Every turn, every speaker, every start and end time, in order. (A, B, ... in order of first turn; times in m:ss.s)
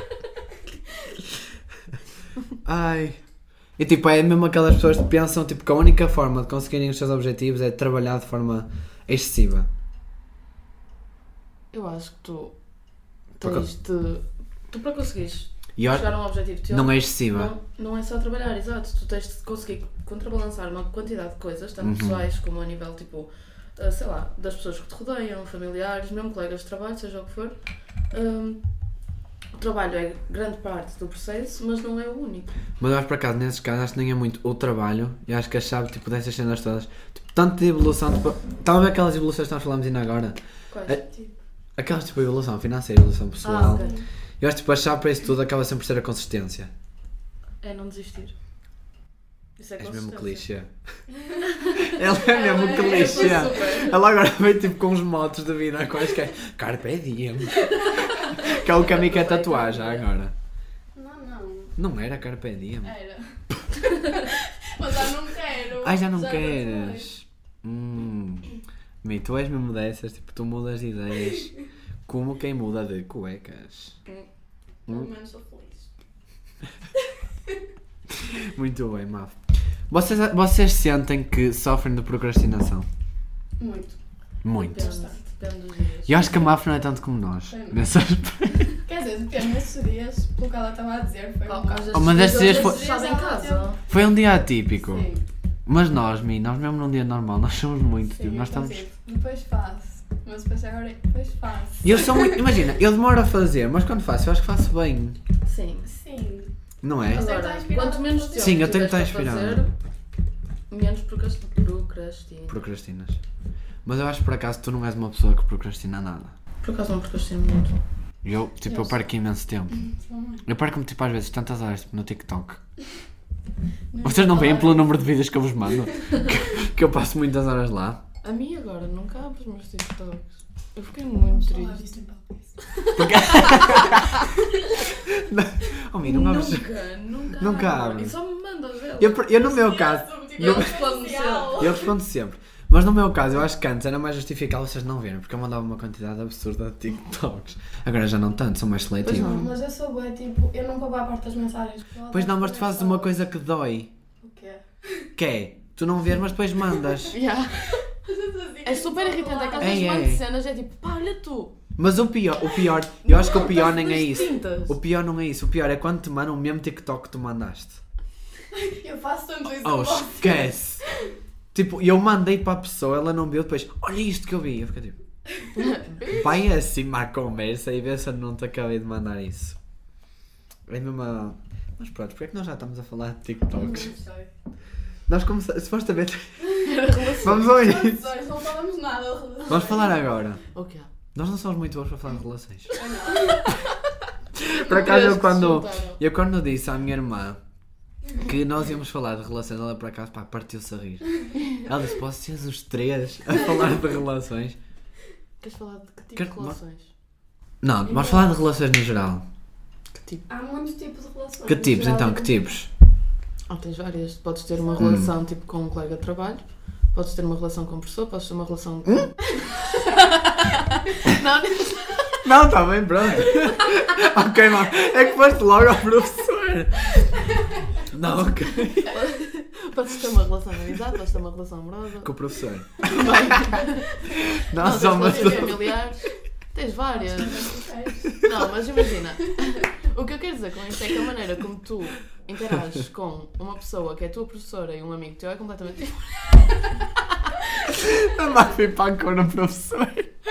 0:02.6-0:03.2 A
0:03.8-0:09.7 A
0:11.7-0:12.6 B
0:13.4-0:28.6 B
0:13.4-0:13.7 A
0:15.8-0:16.1 A
0:16.7-0:17.5 A
0:21.8-0:22.2 A
0:29.5-0:32.5 B
0:32.8-0:41.0 A
0:40.7-0:41.0 B
0:41.8-0:46.7 A
0:43.4-0:44.0 B
0:43.6-0:44.0 C
0:47.6-0:48.3 B
0:49.6-0:50.5 B
0:49.8-0:50.7 A
0:51.1-0:51.4 C
0:51.5-0:54.0 B
0:51.8-1:00.3 A
0:52.1-0:53.8 C
0:57.8-1:00.1 B
1:00.9-1:01.7 C
1:01.8-1:03.0 A
1:02.8-1:07.1 C
1:05.8-1:08.5 A
1:09.0-1:11.6 A
1:12.1-1:14.0 A
1:14.9-1:15.9 C
1:18.1-1:22.9 A
1:23.6-1:24.0 C
1:24.4-1:24.8 A
1:24.6-1:26.5 B
1:24.7-1:25.2 C
1:26.1-1:28.8 A
1:27.5-1:27.8 C
1:28.7-1:33.8 C
1:31.5-1:33.8 B
1:31.9-1:32.8 A
1:33.9-1:35.1 A
1:34.8-1:35.2 C
1:35.7-1:38.8 A
1:38.1-1:42.7 C
1:41.8-1:45.2 A
1:45.4-1:45.9 B
1:45.8-1:46.5 C
1:46.8-1:47.2 A
1:47.1-1:48.7 C
1:47.1-1:49.7 B
1:48.4-1:49.6 A
1:50.7-1:52.6 B
1:52.5-1:53.2 A
1:53.8-1:56.4 A
1:56.6-1:57.8 B
1:58.2-1:59.8 A
1:58.7-1:59.0 C
1:59.8-2:00.5 C
2:00.4-2:02.6 A
2:03.9-2:04.9 C
2:04.0-2:08.0 A
2:08.2-2:11.8 B
2:11.1-2:12.8 C
2:12.7-2:14.3 B
2:13.0-2:16.7 A
2:16.0-2:19.4 B
2:17.3-2:18.2 A
2:19.0-2:20.8 A
2:19.4-2:21.9 C
2:20.4-2:21.7 B
2:21.6-2:29.3 A
2:29.0-2:29.5 B
2:29.1-2:33.1 C
2:32.1-2:33.9 A
2:34.2-2:35.1 C
2:35.2-2:37.2 A
2:37.1-2:37.9 B
2:37.6-2:39.9 C
2:38.6-2:41.6 B
2:39.6-2:40.2 A
2:41.8-2:47.8 A
2:43.0-2:44.8 B
2:48.5-2:51.1 C
2:49.6-2:50.8 A
2:51.5-2:55.0 A
2:55.6-2:56.2 B
2:56.0-2:59.6 A
3:00.7-3:03.9 A
3:03.5-3:04.3 C
3:05.1-3:08.2 A
3:06.6-3:07.5 B
3:07.0-3:10.0 C
3:09.5-3:10.4 A
3:10.5-3:10.9 B
3:11.2-3:12.8 A
3:12.7-3:13.6 C
3:14.4-3:17.4 A
3:14.5-3:16.0 B
3:18.2-3:24.6 A
3:25.4-3:26.9 B
3:26.2-3:26.6 A
3:27.6-3:29.2 A
3:27.9-3:28.3 C
3:30.0-3:30.2 B
3:30.3-3:32.4 C
3:31.4-3:32.7 A
3:33.5-3:42.2 B
3:34.8-3:35.1 A
3:42.2-3:47.1 A
3:47.9-3:49.0 A
3:48.6-3:52.1 B
3:52.0-3:55.7 A
3:52.8-3:57.6 B
3:54.8-3:55.6 C
3:57.0-3:58.2 C
3:58.2-4:06.6 B
4:07.7-4:10.1 A